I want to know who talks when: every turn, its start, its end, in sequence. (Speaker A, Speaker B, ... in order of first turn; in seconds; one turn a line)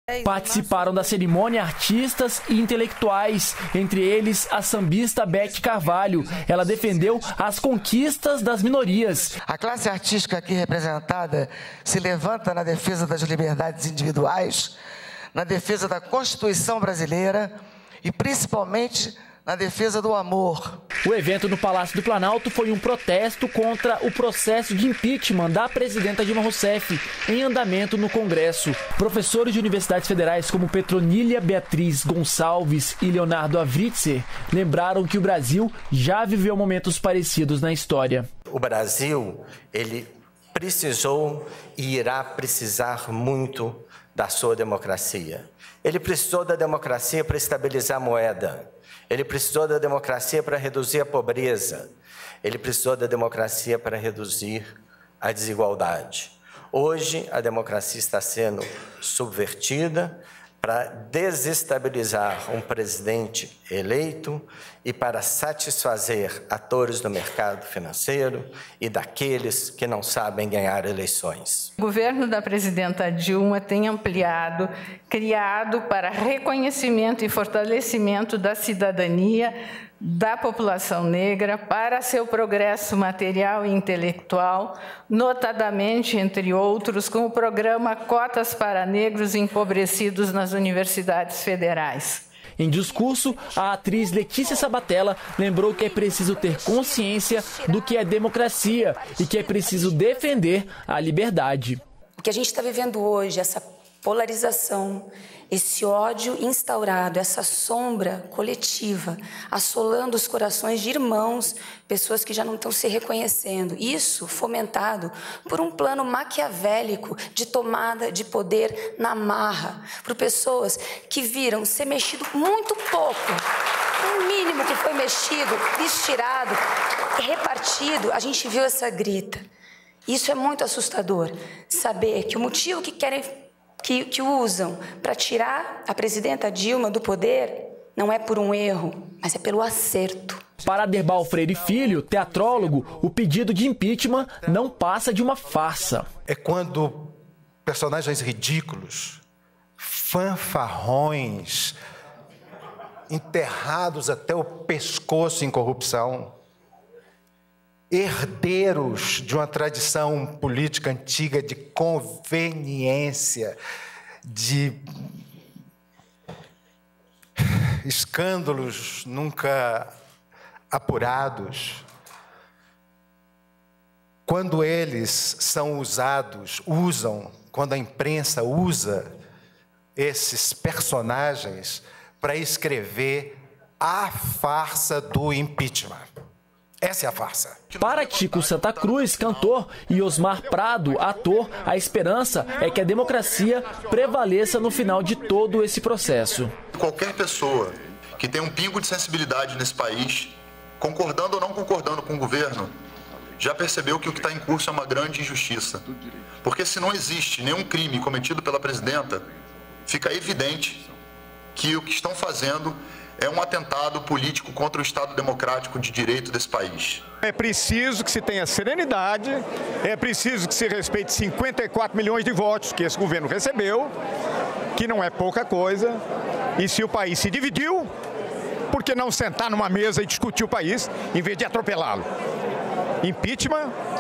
Speaker A: 0.2-9.3
Speaker B: 9.5-14.8
Speaker B: 15.3-20.8
Speaker A: 21.0-38.3
Speaker C: 38.5-51.9
Speaker C: 52.4-71.7
Speaker D: 71.8-92.2
Speaker A: 92.6-101.8
Speaker E: 93.0-94.8
Speaker E: 95.6-100.5
Speaker E: 102.2-123.4
Speaker E: 124.0-126.6
Speaker E: 127.2-129.4
Speaker E: 130.1-140.4
Speaker A: 140.6-146.1
Speaker F: 146.3-147.1
Speaker F: 147.7-149.2
Speaker F: 149.8-151.8
Speaker F: 153.1-156.3
Speaker F: 157.9-163.6
Speaker F: 164.3-164.9
Speaker F: 167.4-169.9
Speaker F: 170.7-171.8
Speaker F: 174.3-179.1
Speaker F: 180.0-186.1
Speaker F: 186.8-187.6
Speaker A: 187.8-196.5
Speaker G: 196.7-202.7
Speaker G: 203.4-205.8
Speaker G: 206.4-209.3
Speaker G: 209.9-210.8
Speaker G: 211.6-217.1
Speaker H: 217.2-223.9
Speaker H: 224.8-226.0
Speaker H: 226.6-227.9
Speaker H: 228.7-232.1
Speaker H: 233.0-233.7